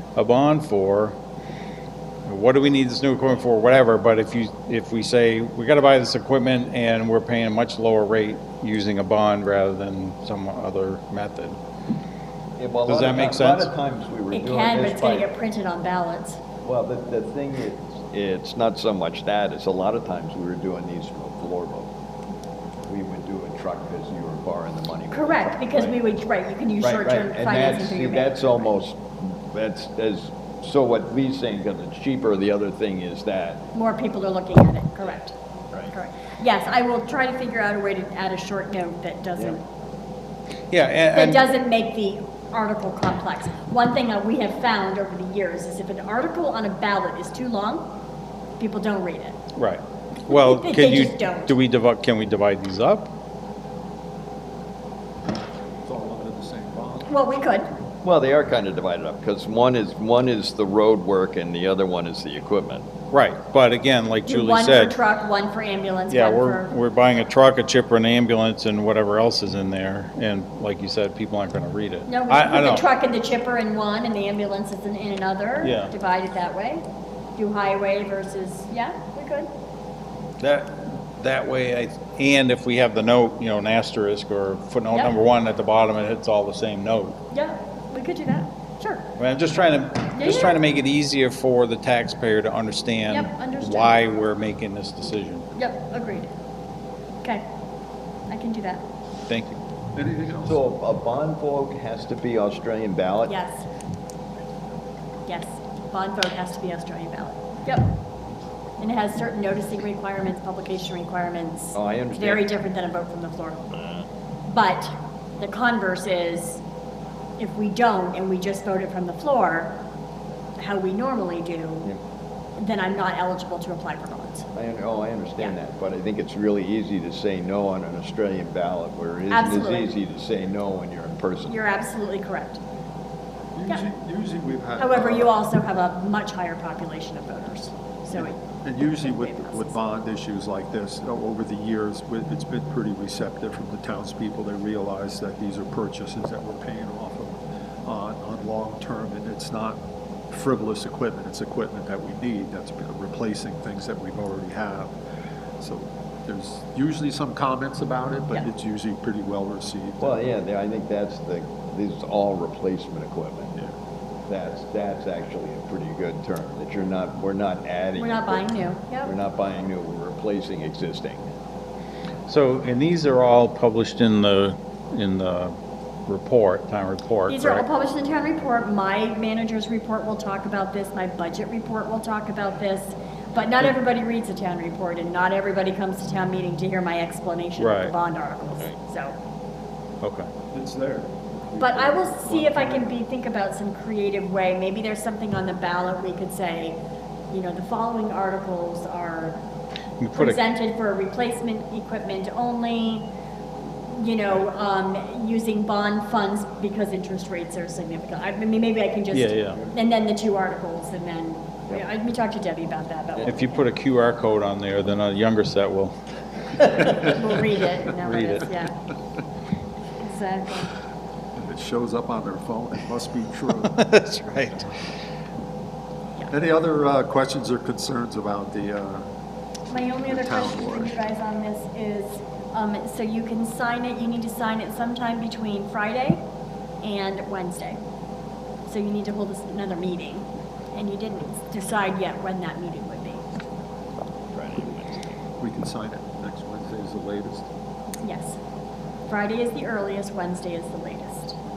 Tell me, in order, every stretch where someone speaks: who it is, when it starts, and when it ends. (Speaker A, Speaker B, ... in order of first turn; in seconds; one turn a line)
Speaker A: 0.2-1.2
Speaker A: 2.3-11.6
Speaker B: 12.6-15.3
Speaker A: 12.9-13.7
Speaker C: 14.3-16.4
Speaker B: 16.6-21.9
Speaker B: 22.9-26.0
Speaker C: 25.1-28.7
Speaker B: 26.8-33.7
Speaker C: 33.8-35.4
Speaker C: 35.9-39.6
Speaker A: 40.7-41.5
Speaker C: 41.1-47.9
Speaker C: 48.6-49.4
Speaker A: 49.6-53.1
Speaker C: 50.3-51.5
Speaker D: 55.8-57.1
Speaker C: 57.1-57.7
Speaker B: 58.0-62.9
Speaker A: 63.1-65.0
Speaker C: 64.3-66.7
Speaker A: 66.1-72.9
Speaker C: 72.1-76.8
Speaker A: 75.6-75.9
Speaker C: 77.4-79.5
Speaker A: 80.4-87.2
Speaker C: 87.3-89.1
Speaker A: 89.2-95.5
Speaker C: 90.1-90.6
Speaker C: 93.1-94.2
Speaker C: 95.6-96.3
Speaker C: 98.3-98.9
Speaker A: 99.3-99.6
Speaker D: 100.0-100.6
Speaker B: 100.4-103.3
Speaker C: 103.3-103.7
Speaker C: 105.3-108.0
Speaker C: 108.8-113.7
Speaker B: 111.8-112.5
Speaker C: 114.5-116.6
Speaker C: 117.4-119.8
Speaker C: 120.6-121.9
Speaker C: 122.6-124.5
Speaker B: 124.5-131.6
Speaker C: 129.3-129.9
Speaker C: 131.5-132.6
Speaker D: 133.5-135.3
Speaker C: 134.8-139.8
Speaker D: 138.2-154.9
Speaker D: 155.6-160.2
Speaker B: 160.0-163.7
Speaker B: 164.3-168.5
Speaker C: 168.0-169.1
Speaker B: 169.0-171.3
Speaker A: 172.3-175.6
Speaker A: 176.1-177.7
Speaker C: 177.3-189.2
Speaker A: 187.6-187.9
Speaker A: 190.0-190.3
Speaker D: 190.5-192.9
Speaker C: 191.6-196.8
Speaker C: 197.3-199.4
Speaker A: 200.0-200.4
Speaker C: 200.1-203.1
Speaker C: 203.9-213.6
Speaker A: 209.1-209.7
Speaker A: 213.3-216.0
Speaker A: 216.6-217.2
Speaker C: 216.7-218.7
Speaker A: 218.0-218.5
Speaker C: 220.0-220.7
Speaker D: 221.3-223.8
Speaker A: 223.7-224.7
Speaker D: 226.3-229.1
Speaker D: 229.7-231.0
Speaker C: 229.7-236.2
Speaker C: 236.8-237.8
Speaker C: 238.7-243.2
Speaker B: 244.3-245.1
Speaker D: 245.4-247.5
Speaker C: 248.0-248.4
Speaker C: 249.1-251.4